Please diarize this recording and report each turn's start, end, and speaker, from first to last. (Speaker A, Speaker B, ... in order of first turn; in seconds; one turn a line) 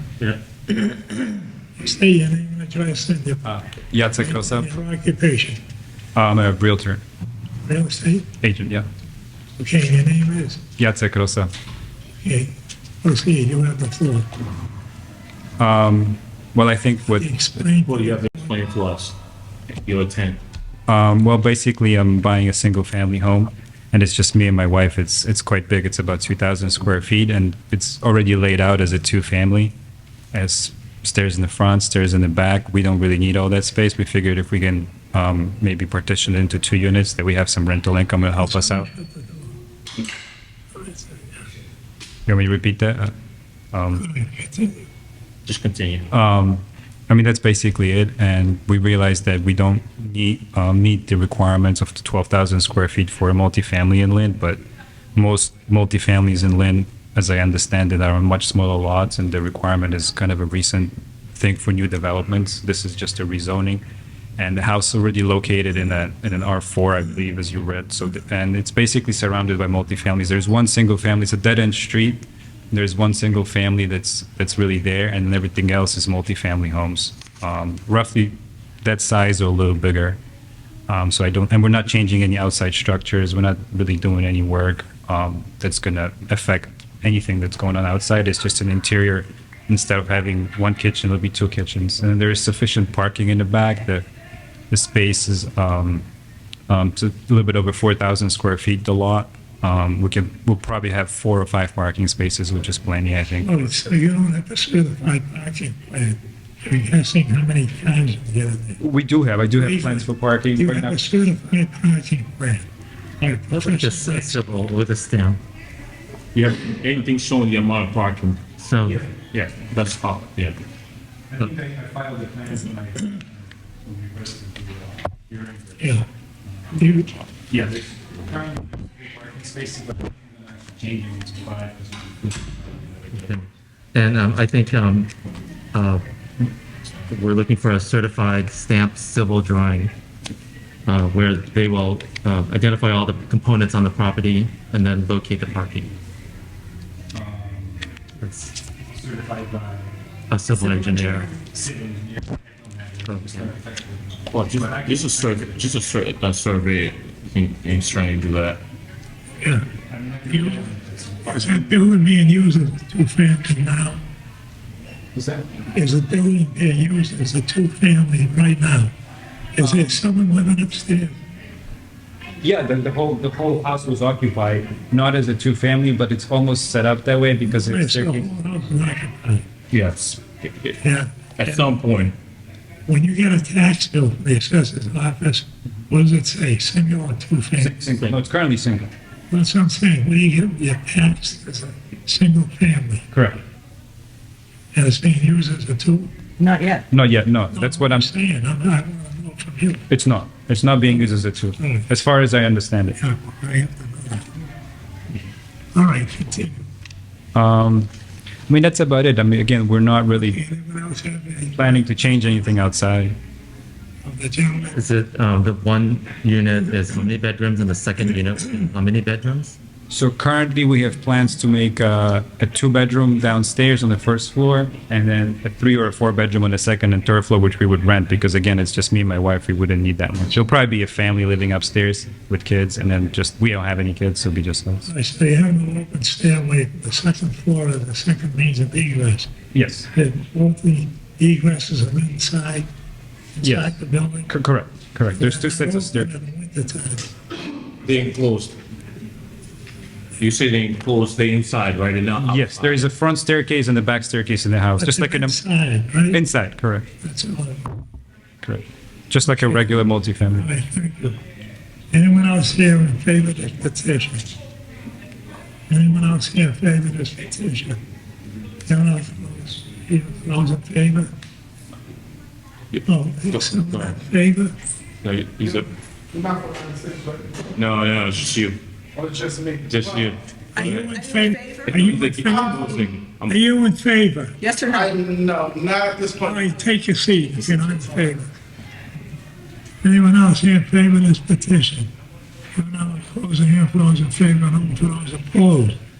Speaker A: 0.7-3.5
Speaker B: 3.4-4.7
Speaker A: 4.1-5.6
Speaker B: 6.1-7.0
Speaker A: 7.6-8.3
Speaker B: 8.4-8.8
Speaker A: 9.6-10.6
Speaker B: 10.8-11.5
Speaker A: 12.2-14.3
Speaker B: 15.6-17.3
Speaker A: 17.1-18.6
Speaker C: 17.9-19.1
Speaker C: 19.8-20.4
Speaker B: 20.9-29.7
Speaker B: 30.3-38.9
Speaker A: 38.4-39.5
Speaker A: 40.7-41.4
Speaker B: 42.2-43.1
Speaker B: 43.7-44.0
Speaker A: 43.9-44.8
Speaker C: 45.5-46.1
Speaker B: 46.1-54.6
Speaker B: 55.1-63.8
Speaker B: 64.4-80.2
Speaker B: 80.9-94.0
Speaker B: 94.7-96.1
Speaker B: 96.7-103.5
Speaker A: 103.4-108.8
Speaker B: 108.8-111.0
Speaker A: 109.5-112.7
Speaker A: 113.2-114.4
Speaker D: 113.5-115.4
Speaker B: 116.3-116.6
Speaker C: 116.5-118.4
Speaker D: 118.6-119.0
Speaker B: 118.9-119.6
Speaker C: 119.6-120.6
Speaker B: 121.3-126.0
Speaker A: 125.8-126.0
Speaker A: 126.7-127.1
Speaker B: 127.5-133.3
Speaker D: 133.2-135.1
Speaker D: 135.7-136.0
Speaker D: 137.1-139.9
Speaker D: 140.8-145.9
Speaker B: 147.1-147.9
Speaker D: 148.2-148.5
Speaker B: 148.9-150.0
Speaker D: 150.3-151.3
Speaker B: 150.5-155.7
Speaker D: 153.0-153.5
Speaker C: 154.3-158.6
Speaker A: 159.4-159.7
Speaker B: 159.9-161.6
Speaker A: 160.3-160.6
Speaker A: 161.3-164.0
Speaker B: 165.1-165.5
Speaker A: 165.7-168.9
Speaker A: 169.5-171.2
Speaker B: 169.6-170.0
Speaker B: 172.4-178.3
Speaker A: 177.5-179.4
Speaker B: 179.7-180.1
Speaker C: 179.7-180.8
Speaker A: 180.8-181.8
Speaker C: 181.4-182.2
Speaker A: 182.9-187.8
Speaker B: 187.6-188.9
Speaker A: 189.3-193.0
Speaker B: 193.1-193.4
Speaker A: 194.7-196.1
Speaker E: 196.4-196.8
Speaker B: 196.9-198.1
Speaker A: 197.5-199.8
Speaker B: 199.9-203.0
Speaker A: 201.6-201.9
Speaker A: 203.0-204.5
Speaker A: 205.7-206.7
Speaker B: 207.3-207.9
Speaker B: 208.5-210.4
Speaker A: 210.2-211.9
Speaker B: 211.5-213.2
Speaker A: 214.0-214.8
Speaker D: 214.7-219.6
Speaker B: 219.9-234.9
Speaker A: 234.8-239.3
Speaker B: 239.5-239.9
Speaker A: 239.9-242.7
Speaker A: 243.4-244.3
Speaker B: 243.4-243.7
Speaker B: 244.3-246.1
Speaker A: 245.1-247.1
Speaker C: 247.8-248.6
Speaker C: 250.2-252.9
Speaker B: 252.2-255.4
Speaker A: 254.8-256.2
Speaker B: 256.1-256.9
Speaker A: 257.0-257.8
Speaker B: 258.4-260.5
Speaker A: 259.2-261.2
Speaker A: 261.9-264.3
Speaker A: 265.7-267.8
Speaker A: 268.7-271.1
Speaker C: 272.7-273.9
Speaker A: 272.9-274.5
Speaker C: 275.0-275.7
Speaker F: 276.2-277.1
Speaker C: 277.5-278.6
Speaker F: 279.0-279.6
Speaker C: 279.6-281.0
Speaker A: 280.5-282.7
Speaker E: 280.6-281.9
Speaker C: 281.6-283.4
Speaker A: 283.2-284.4
Speaker E: 284.4-285.0
Speaker F: 285.0-286.1
Speaker A: 286.0-288.3
Speaker A: 289.8-291.9
Speaker A: 292.5-295.8